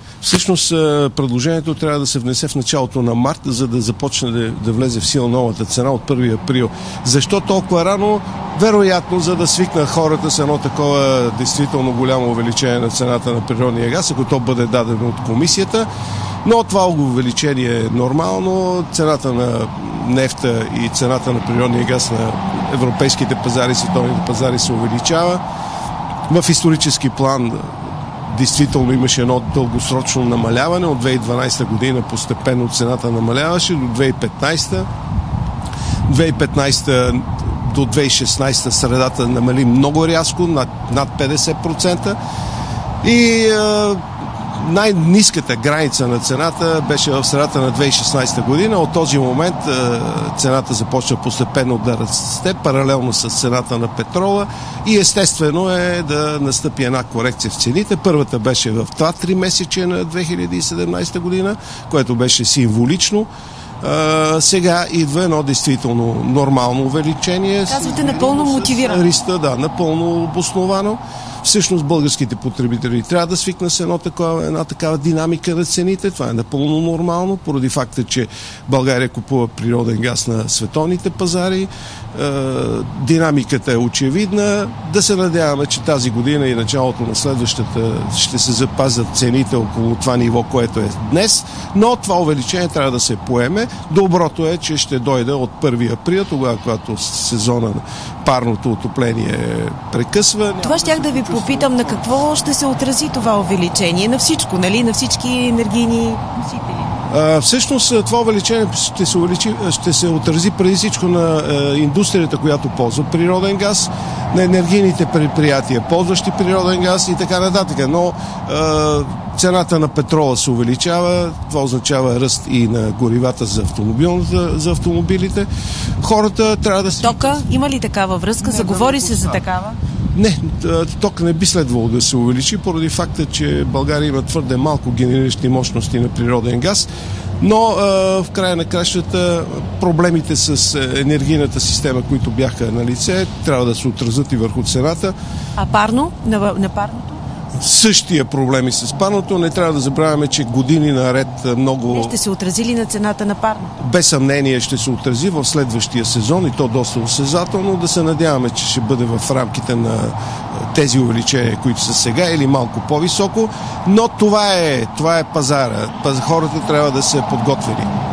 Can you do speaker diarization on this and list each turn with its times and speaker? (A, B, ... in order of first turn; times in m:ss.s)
0:00.2-0:15.9 A
0:16.4-0:25.4 A
0:26.3-0:27.7 A
0:28.3-0:34.9 A
0:36.1-0:42.2 A
0:43.0-0:44.0 A
0:44.5-1:03.3 A
1:03.8-1:42.1 A
1:07.7-1:09.0 B
1:40.6-1:46.9 B
1:47.1-2:05.5 A
2:06.0-2:07.4 A
2:07.0-2:09.8 B
2:08.4-2:09.4 A
2:10.2-2:16.9 A
2:17.4-2:25.2 A
2:25.6-2:27.2 B
2:27.6-2:32.2 A
2:31.9-2:33.7 B
2:33.8-2:47.9 A